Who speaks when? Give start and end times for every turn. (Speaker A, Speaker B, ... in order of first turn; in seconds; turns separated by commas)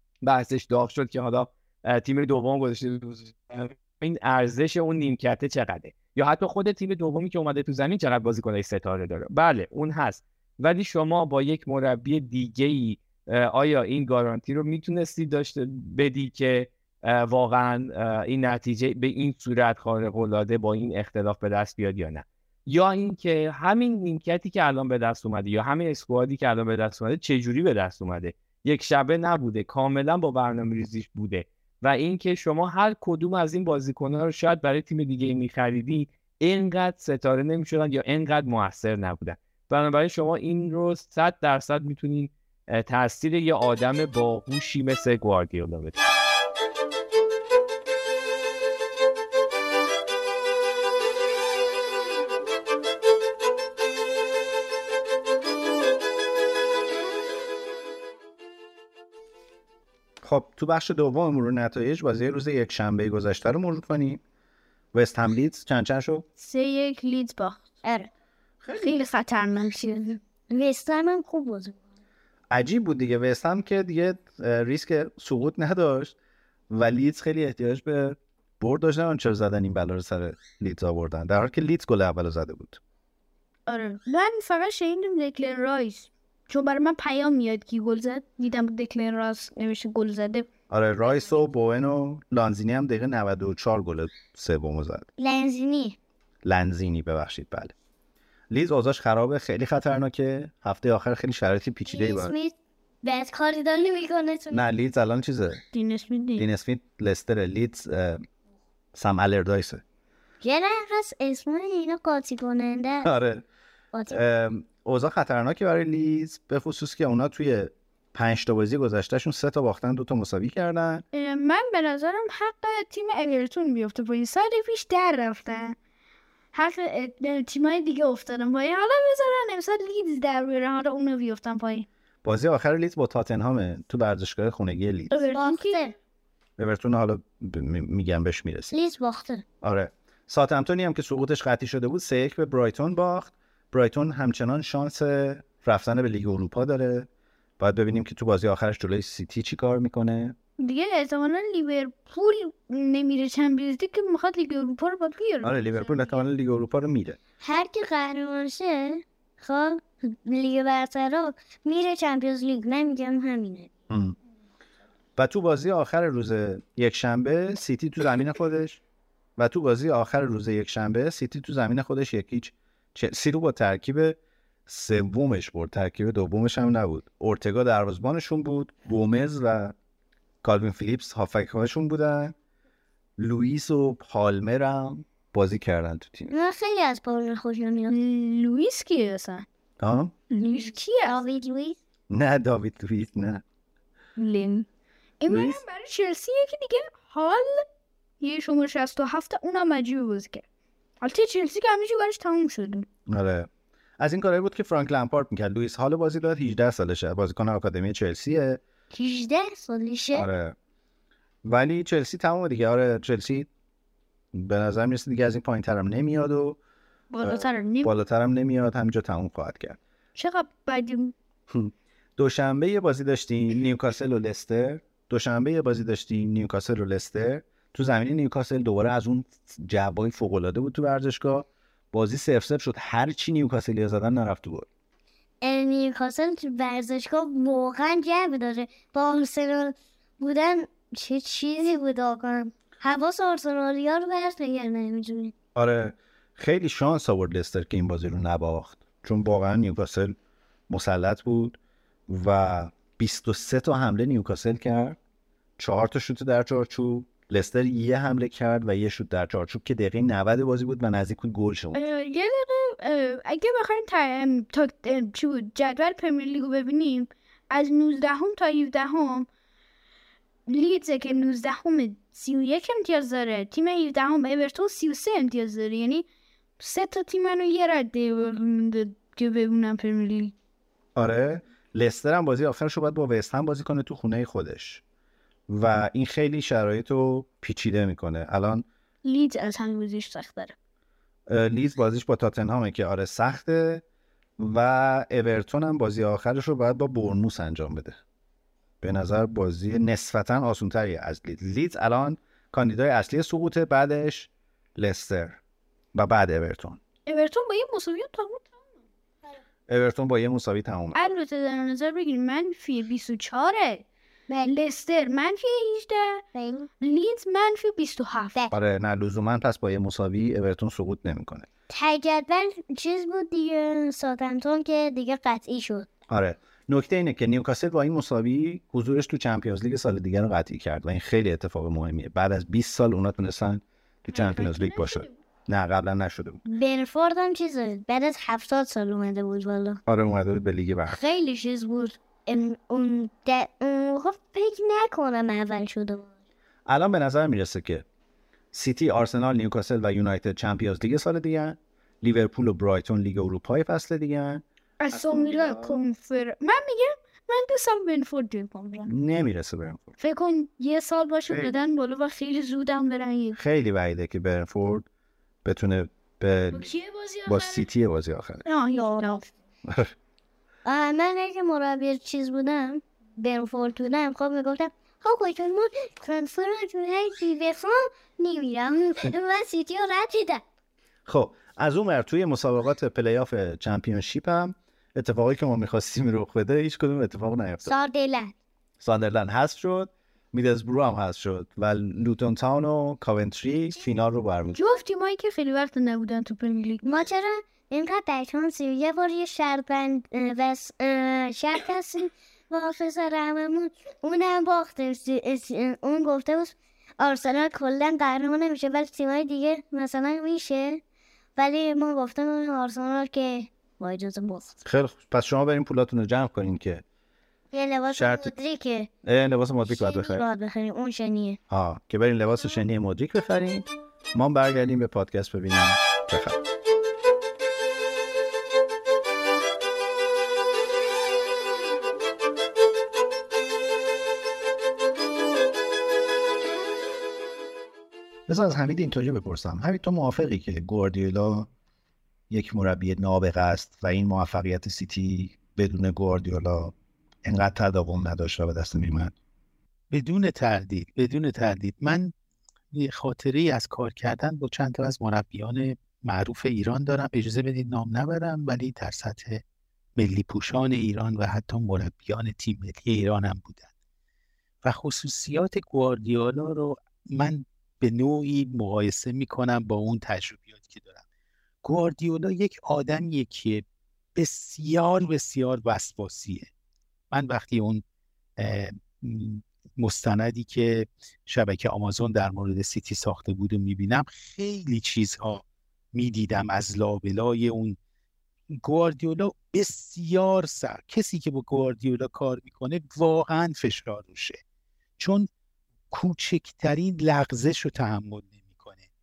Speaker A: 0.2-46.0, Speaker B: 60.2-64.2, Speaker B: 64.9-66.2, Speaker C: 66.4-67.8, Speaker B: 68.6-69.0, Speaker C: 68.8-70.2, Speaker D: 70.5-71.8, Speaker B: 72.5-76.2, Speaker B: 76.7-82.8, Speaker C: 83.7-90.5, Speaker B: 90.7-95.1, Speaker D: 95.2-96.0, Speaker B: 96.4-97.7, Speaker B: 98.5-102.3, Speaker D: 101.9-104.6, Speaker B: 104.5-105.6, Speaker C: 105.7-106.5, Speaker B: 106.4-108.2, Speaker B: 108.9-109.8, Speaker D: 110.4-113.1, Speaker B: 113.0-113.5, Speaker B: 114.1-121.0, Speaker C: 121.1-125.8, Speaker C: 126.5-131.9, Speaker B: 132.2-135.1, Speaker C: 135.1-135.9, Speaker D: 135.2-135.9, Speaker B: 136.6-138.8, Speaker D: 138.7-139.4, Speaker B: 139.6-147.1, Speaker B: 147.6-150.4, Speaker C: 150.6-156.0, Speaker B: 155.4-157.2, Speaker D: 157.4-163.7, Speaker B: 163.9-164.2, Speaker B: 165.2-168.8, Speaker B: 169.4-179.8, Speaker B: 180.4-182.3, Speaker B: 183.2-186.3, Speaker D: 186.3-187.9, Speaker C: 187.9-189.5, Speaker B: 189.8-190.1, Speaker C: 190.3-191.2, Speaker D: 190.4-191.8, Speaker B: 192.1-193.4, Speaker C: 194.2-194.7, Speaker C: 195.2-197.7, Speaker B: 195.3-195.6, Speaker C: 198.2-200.4, Speaker C: 201.0-202.9, Speaker B: 203.1-203.5, Speaker B: 204.0-208.6, Speaker D: 208.9-210.3, Speaker B: 210.1-210.6, Speaker B: 211.4-213.5, Speaker B: 214.3-216.6, Speaker C: 217.1-217.9, Speaker B: 217.2-219.8, Speaker C: 220.2-221.1, Speaker B: 221.5-234.7, Speaker D: 235.4-245.3, Speaker B: 245.6-250.2, Speaker B: 250.7-255.0, Speaker B: 255.6-261.8, Speaker C: 261.7-269.3, Speaker C: 270.5-276.1, Speaker C: 276.6-280.4, Speaker B: 281.0-284.8, Speaker B: 285.5-288.6, Speaker C: 289.0-290.6, Speaker B: 291.3-293.8, Speaker B: 294.4-298.0, Speaker B: 298.8-305.4, Speaker B: 305.9-306.8, Speaker C: 307.1-308.5, Speaker B: 309.7-311.1, Speaker C: 310.9-313.9, Speaker C: 314.4-316.2, Speaker D: 316.3-316.7, Speaker C: 316.8-318.4, Speaker B: 318.5-321.5, Speaker D: 321.7-325.9, Speaker B: 326.1-336.4, Speaker C: 334.1-335.2, Speaker D: 336.5-339.8, Speaker B: 339.9-341.0, Speaker D: 340.9-346.1, Speaker B: 346.7-347.9, Speaker B: 348.5-355.8, Speaker C: 354.8-358.9, Speaker B: 358.9-360.0, Speaker C: 360.0-363.4, Speaker B: 361.3-361.6, Speaker B: 363.4-364.9, Speaker B: 365.4-368.4, Speaker C: 366.5-367.7, Speaker C: 368.4-369.3, Speaker B: 369.7-369.9, Speaker D: 370.6-380.4, Speaker B: 381.1-387.7, Speaker D: 387.6-388.3, Speaker B: 388.8-394.6, Speaker C: 394.5-396.9, Speaker D: 396.8-410.8, Speaker D: 411.4-414.6, Speaker B: 414.6-416.8, Speaker D: 417.5-418.9, Speaker B: 417.9-418.3, Speaker B: 419.0-420.2, Speaker D: 419.7-421.4, Speaker B: 421.5-426.4, Speaker B: 438.3-441.5, Speaker B: 442.3-446.7, Speaker B: 447.2-449.1, Speaker E: 449.9-452.1, Speaker E: 452.7-459.4, Speaker E: 460.0-463.7, Speaker E: 464.6-471.0, Speaker E: 471.6-473.6, Speaker E: 474.1-476.5, Speaker E: 477.1-477.8, Speaker E: 478.4-487.8, Speaker E: 488.5-494.4, Speaker E: 495.0-495.3, Speaker E: 495.9-498.8